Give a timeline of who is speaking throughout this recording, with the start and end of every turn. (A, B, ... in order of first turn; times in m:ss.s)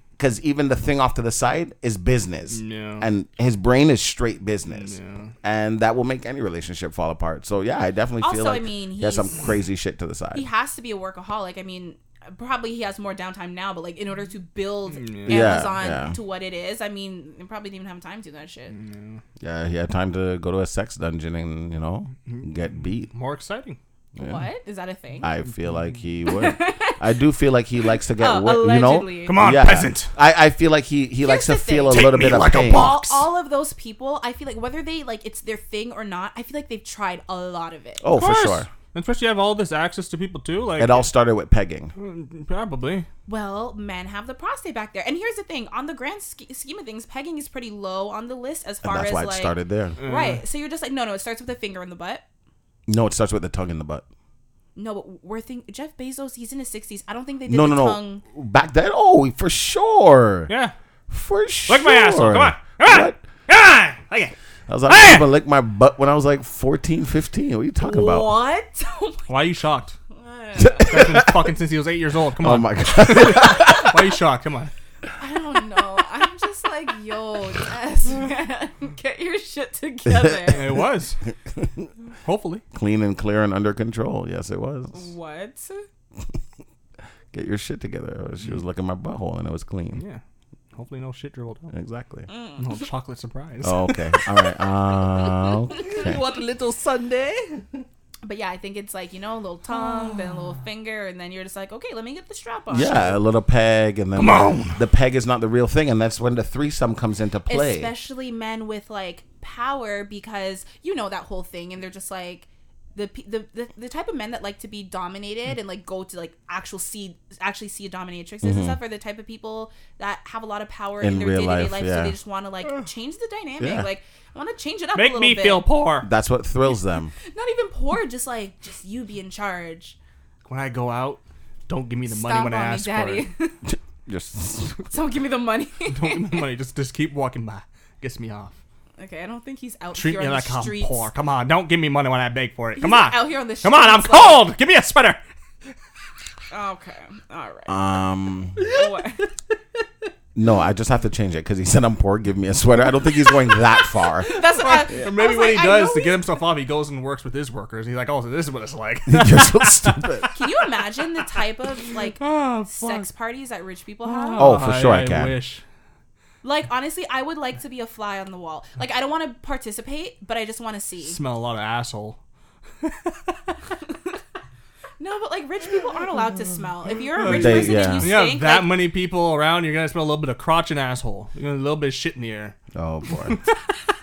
0:00.2-0:10.4 A
0:02.5-0:03.1 B
0:04.7-0:05.3 B
0:08.2-0:09.4 C
0:10.3-0:18.7 C
0:14.9-0:15.6 B
0:15.2-0:16.2 A
0:18.7-0:19.2 B
0:19.4-0:23.1 A
0:22.2-0:23.8 B
0:24.2-0:24.4 A
0:24.2-0:25.3 C
0:25.2-0:33.0 A
0:26.2-0:27.0 C
0:28.2-0:29.4 C
0:29.2-0:30.1 B
0:31.2-0:38.1 C
0:31.9-0:33.3 B
0:38.0-0:38.7 A
0:38.1-0:41.0 B
0:40.8-0:41.9 A
0:42.0-0:43.1 B
0:43.3-0:52.2 C
0:48.8-0:50.0 A
0:50.0-0:50.4 B
0:52.9-0:54.0 A
0:54.8-0:58.2 C
0:57.5-1:00.5 A
1:00.5-1:00.7 B
1:01.1-1:03.2 A
1:01.7-1:04.3 B
1:04.7-1:08.3 A
1:04.9-1:05.3 B
1:07.8-1:09.3 C
1:09.3-1:10.0 B
1:10.1-1:10.9 C
1:10.6-1:11.4 A
1:10.8-1:14.7 B
1:12.4-1:14.0 A
1:15.2-1:20.7 C
1:20.1-1:20.6 A
1:20.5-1:21.2 B
1:21.4-1:21.9 A
1:22.2-1:22.6 B
1:22.7-1:25.1 A
1:24.9-1:25.8 C
1:27.3-1:30.0 A
1:30.0-1:30.2 B
1:30.7-1:31.7 B
1:31.7-1:32.3 A
1:32.3-1:32.8 C
1:32.6-1:34.0 B
1:33.6-1:36.2 A
1:35.7-1:37.8 B
1:38.2-1:43.2 C
1:42.7-1:47.9 A
1:44.2-1:44.8 B
1:47.5-2:05.6 C
1:58.4-1:58.8 A
2:01.0-2:02.1 A
2:03.6-2:03.9 A
2:04.9-2:06.1 B
2:06.0-2:07.1 A
2:07.2-2:10.0 C
2:10.4-2:13.2 B
2:12.1-2:13.6 C
2:13.7-2:14.9 A
2:14.9-2:16.4 C
2:15.9-2:18.5 B
2:19.0-2:21.1 C
2:19.9-2:25.2 B
2:22.8-2:24.4 C
2:26.5-2:27.8 C
2:27.7-2:28.6 A
2:28.6-2:29.3 B
2:28.6-2:29.3 C
2:30.3-2:34.4 A
2:34.2-2:36.2 C
2:34.3-2:40.3 B
2:39.1-2:40.3 A
2:40.3-2:44.5 C
2:41.8-2:43.1 B
2:44.0-2:45.6 B
2:44.4-2:45.3 A
2:46.4-2:51.2 C
2:51.0-2:52.2 B
2:52.8-2:53.5 B
2:53.9-2:54.1 C
2:55.0-2:58.7 C
2:57.1-3:02.6 B
2:57.2-2:58.1 A
3:02.7-3:03.4 A
3:03.1-3:03.6 B